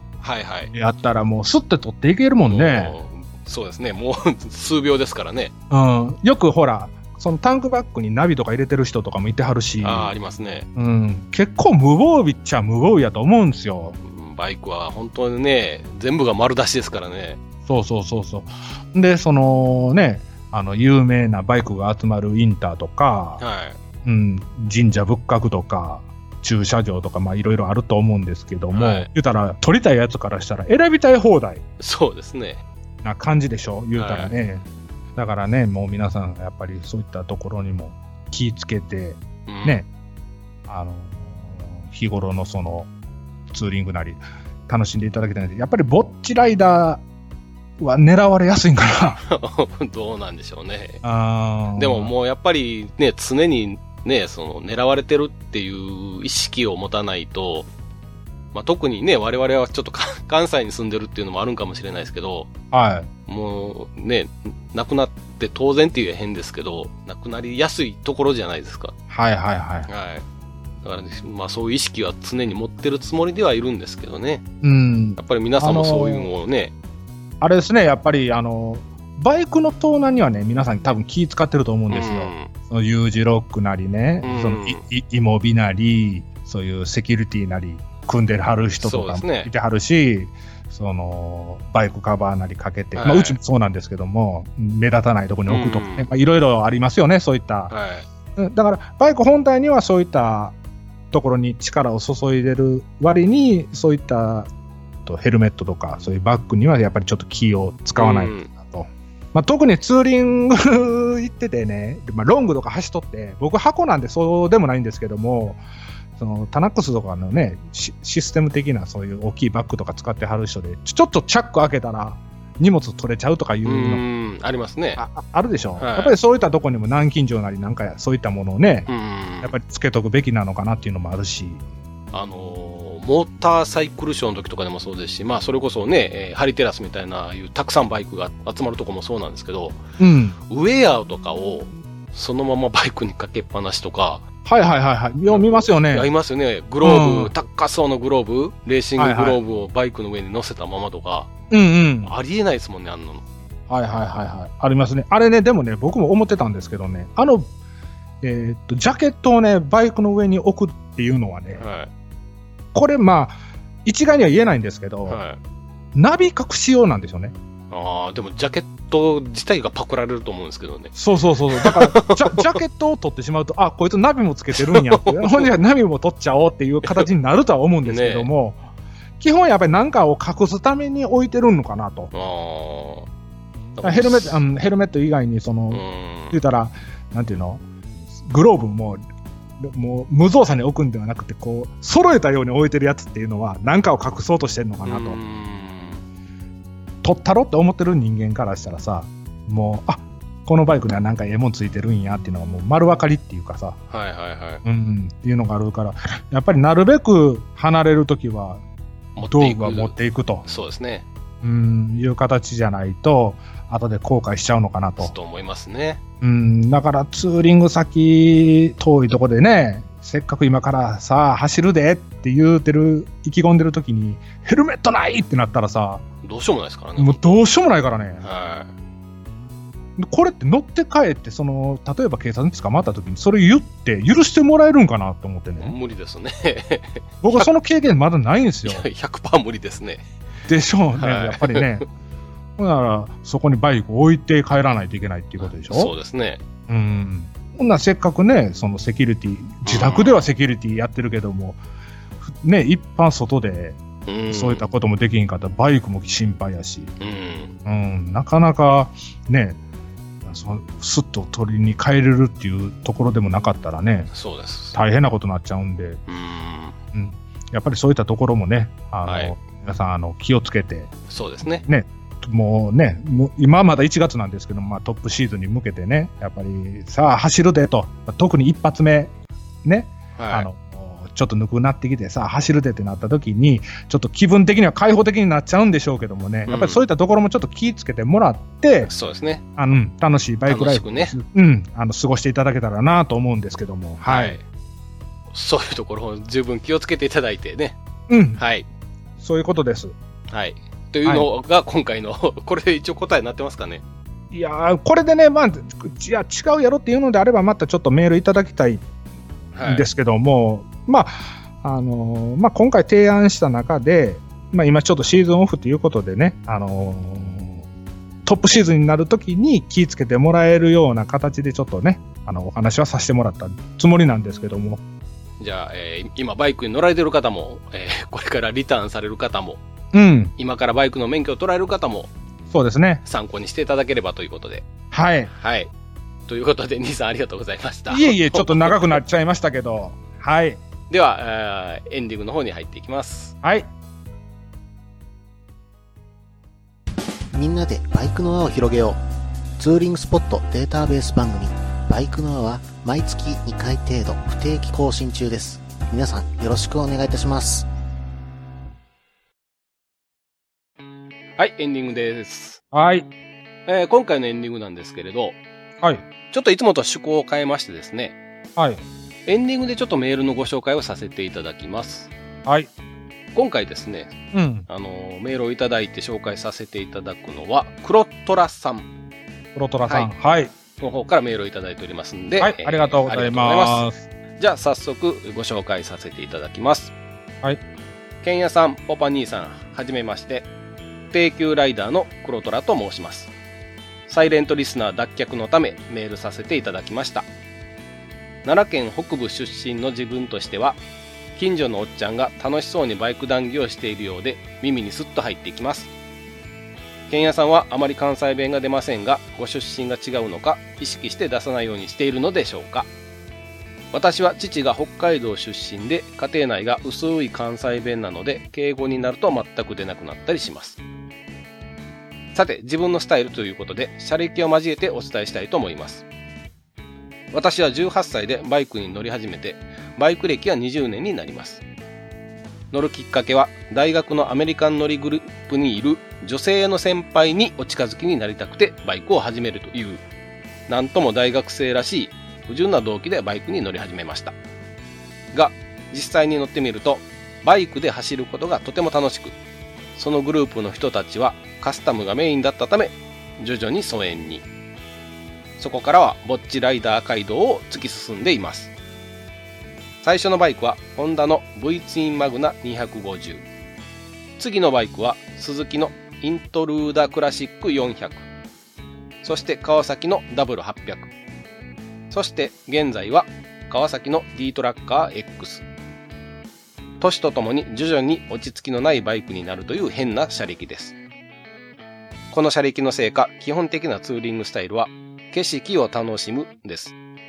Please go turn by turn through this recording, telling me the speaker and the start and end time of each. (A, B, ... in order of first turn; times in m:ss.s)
0:00.2-0:00.7 A
0:00.7-0:03.0 B
0:02.4-0:05.5 A
0:05.7-0:10.1 B
0:09.8-0:10.7 A
0:10.8-0:14.0 B
0:14.0-0:17.4 A
0:17.7-0:23.4 B
0:23.4-0:23.8 A
0:24.0-0:31.6 B
0:28.7-0:29.1 A
0:31.8-0:32.6 A
0:33.0-0:34.6 B
0:34.0-0:34.3 A
0:35.2-0:39.9 B
0:39.5-0:39.8 A
0:40.7-0:42.9 B
0:43.5-0:47.0 B
0:47.8-0:49.2 B
0:49.2-0:51.0 A
0:51.0-0:52.1 B
0:51.8-0:57.7 A
0:58.5-1:02.5 A
1:02.7-1:03.1 B
1:03.3-1:08.9 A
1:09.1-1:09.9 B
1:09.9-1:10.2 A
1:10.8-1:14.4 A
1:14.6-1:16.3 B
1:15.2-1:16.7 A
1:17.4-1:37.7 B
1:21.9-1:22.5 A
1:24.2-1:24.8 A
1:28.8-1:29.5 A
1:33.0-1:33.4 A
1:35.5-1:36.1 A
1:37.7-1:38.1 A
1:38.4-1:40.6 B
1:41.1-1:44.5 B
1:45.1-1:55.6 B
1:48.0-1:48.5 A
1:56.2-2:04.0 B
2:03.6-2:05.0 A
2:05.0-2:08.9 B
2:05.8-2:06.2 A
2:08.9-2:09.6 A
2:09.4-2:11.6 B
2:12.1-2:19.8 A
2:20.0-2:20.4 B
2:20.5-2:24.2 A
2:24.4-2:26.1 B
2:25.3-2:31.3 A
2:26.8-2:27.3 B
2:29.0-2:29.4 B
2:31.5-2:32.1 B
2:32.0-2:33.2 A
2:33.7-2:37.5 B
2:38.2-2:41.6 B
2:41.6-2:41.9 A
2:42.7-2:45.2 B
2:45.1-2:45.4 A
2:46.0-2:47.4 B
2:47.7-2:51.0 A
2:51.0-2:58.6 B
2:51.5-2:52.6 A
2:54.5-2:55.5 A
2:57.8-2:58.3 A
2:59.2-3:02.1 B
3:02.1-3:03.1 A
3:03.8-3:04.4 A
3:03.8-3:07.6 B
3:05.7-3:06.4 A
3:08.2-3:09.0 B
3:09.6-3:15.2 B
3:14.8-3:16.0 A
3:17.0-3:23.8 B
3:23.9-3:24.6 A
3:24.6-3:28.6 B
3:29.2-3:31.0 A
3:29.3-3:30.4 B
3:31.4-3:35.1 B
3:35.0-3:36.0 A
3:36.2-3:46.0 B
3:46.2-3:47.4 A
3:47.0-3:48.2 B
3:48.2-3:48.7 A
3:50.0-3:55.7 B
3:55.6-3:57.5 A
3:57.2-3:58.8 B
3:58.6-4:00.0 A
4:00.5-4:01.9 B
4:01.0-4:01.8 A
4:02.6-4:05.9 B
4:05.4-4:06.4 A
4:06.7-4:11.6 B
4:09.6-4:10.3 A
4:12.3-4:16.9 B
4:14.1-4:14.7 A
4:17.0-4:17.5 A
4:17.6-4:19.6 B
4:20.2-4:24.1 B
4:24.1-4:24.8 A
4:24.7-4:26.0 B
4:26.1-4:26.8 A
4:26.9-4:30.9 B
4:29.0-4:29.3 A
4:31.1-4:31.6 A
4:31.6-4:39.1 B
4:39.6-4:48.9 B
4:40.2-4:40.5 A
4:46.5-4:46.8 A
4:48.8-4:49.4 A
4:49.6-4:54.4 B
4:50.5-4:51.2 A
4:54.0-4:54.4 A
4:55.3-4:57.8 A
4:58.1-4:58.4 B
4:58.4-4:58.7 A
4:59.2-5:00.0 B
5:00.3-5:03.8 A
5:04.3-5:08.8 B
5:09.5-5:09.9 A
5:09.6-5:17.6 B
5:18.2-5:24.8 B
5:25.4-5:29.6 A
5:29.9-5:30.3 B
5:30.4-5:32.1 A
5:32.5-5:33.0 B
5:33.0-5:34.7 A
5:34.9-5:35.3 B
5:35.3-5:35.7 A
5:36.3-5:39.0 A
5:37.9-5:40.6 B
5:40.9-5:43.4 A
5:43.4-5:43.7 B
5:47.3-5:49.0 C
5:49.6-5:57.7 C
6:01.4-6:02.6 A
6:02.7-6:03.1 B
6:03.7-6:05.4 A
6:06.3-6:08.2 A
6:08.6-6:08.8 B
6:09.3-6:12.1 A
6:13.3-6:14.2 A
6:14.3-6:14.7 B
6:14.7-6:18.9 A
6:19.6-6:20.5 B
6:20.8-6:26.9 A
6:22.4-6:24.0 B
6:28.2-6:30.5 A
6:31.1-6:33.3 A
6:34.1-6:37.3 A
6:38.4-6:40.8 A
6:41.4-6:45.9 A
6:47.1-6:52.9 A
6:53.9-7:00.8 A
7:02.4-7:06.0 A
7:07.3-7:11.6 A
7:12.7-7:20.0 A
7:20.7-7:24.4 A
7:25.3-7:29.4 A
7:30.0-7:34.4 A
7:35.6-7:38.7 A
7:40.0-7:43.4 A
7:44.4-7:48.2 A
7:49.2-7:51.1 A
7:52.1-7:55.6 A
7:57.0-8:01.0 A
8:02.3-8:07.0 A